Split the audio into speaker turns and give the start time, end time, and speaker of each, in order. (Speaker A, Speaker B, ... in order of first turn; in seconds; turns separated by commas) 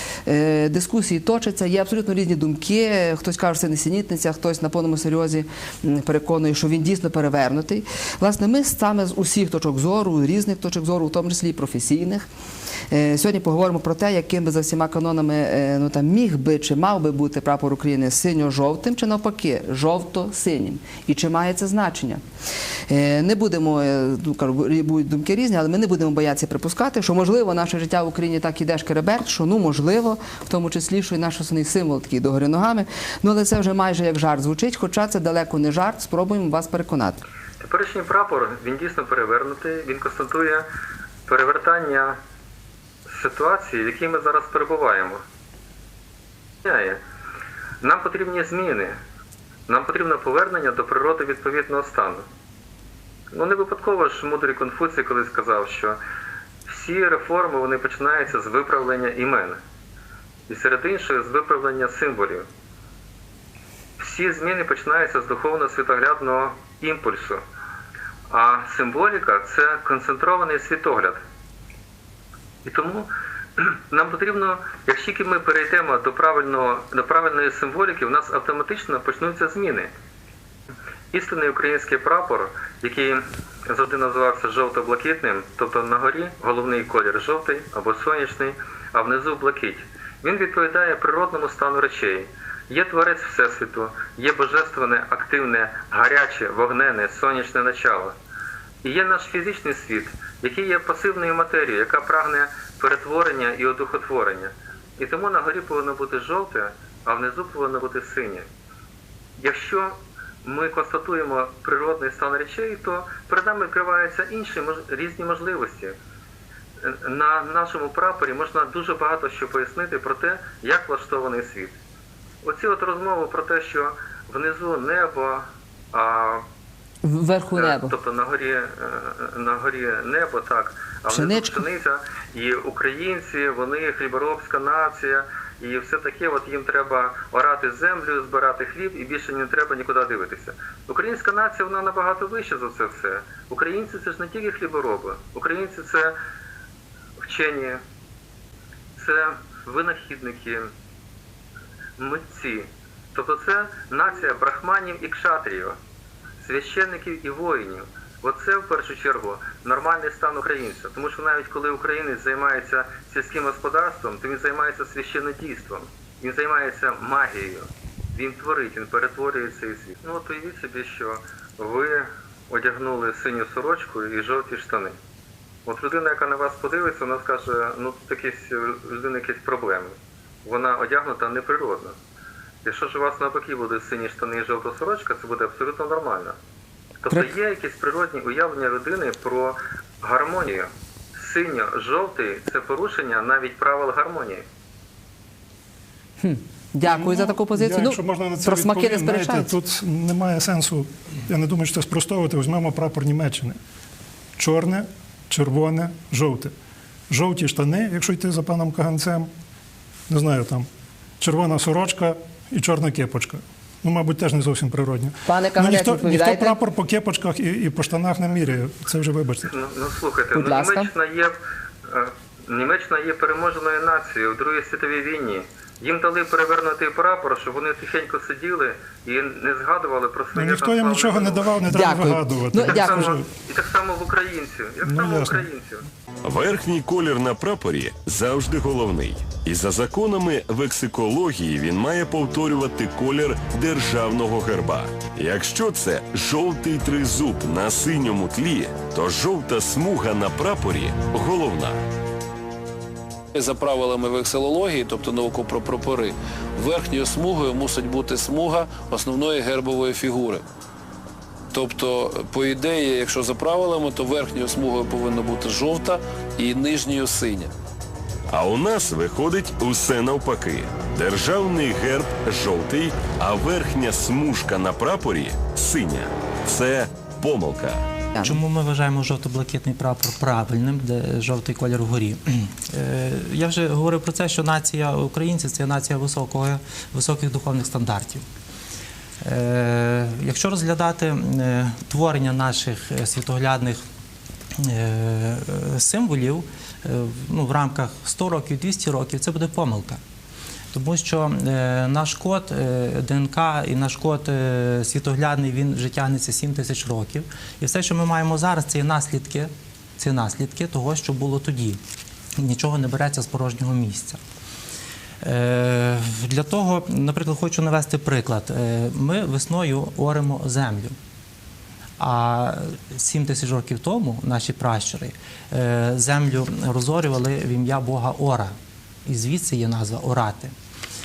Speaker A: 0.2-12.3, Speaker A: 12.9-22.2, Speaker A: 22.9-37.2, Speaker B: 37.6-40.7, Speaker B: 41.2-42.2, Speaker B: 43.0-45.2, Speaker B: 46.6-47.0, Speaker B: 47.8-49.0, Speaker B: 49.7-52.2, Speaker B: 53.3-56.0, Speaker B: 56.6-59.6, Speaker B: 60.5-62.5, Speaker B: 64.0-67.4, Speaker B: 68.3-71.2, Speaker B: 72.6-79.9, Speaker B: 81.1-98.2, Speaker B: 98.8-108.5, Speaker B: 109.4-116.0, Speaker B: 116.8-121.8, Speaker B: 122.4-126.5, Speaker A: 127.0-127.9, Speaker B: 127.5-146.2, Speaker A: 131.1-131.6, Speaker B: 147.2-147.8, Speaker B: 148.9-150.7, Speaker B: 152.0-155.8, Speaker B: 156.4-174.9, Speaker B: 175.7-182.0, Speaker B: 182.6-186.3, Speaker B: 187.0-194.4, Speaker A: 196.2-199.5, Speaker C: 196.8-203.6, Speaker C: 204.4-206.5, Speaker C: 207.1-209.3, Speaker C: 210.1-210.7, Speaker C: 211.2-219.5, Speaker A: 215.2-216.6, Speaker B: 219.5-231.6, Speaker A: 220.3-220.9, Speaker C: 230.3-233.2, Speaker A: 231.6-233.1, Speaker B: 232.6-235.8, Speaker C: 234.8-235.4, Speaker D: 236.2-251.8, Speaker E: 253.3-260.4, Speaker E: 261.5-267.5, Speaker D: 268.3-277.8, Speaker F: 278.2-288.2, Speaker F: 289.2-293.8, Speaker F: 294.6-300.0, Speaker F: 300.7-311.8, Speaker F: 312.4-314.2, Speaker F: 315.2-320.9, Speaker F: 322.0-328.5, Speaker F: 329.1-330.5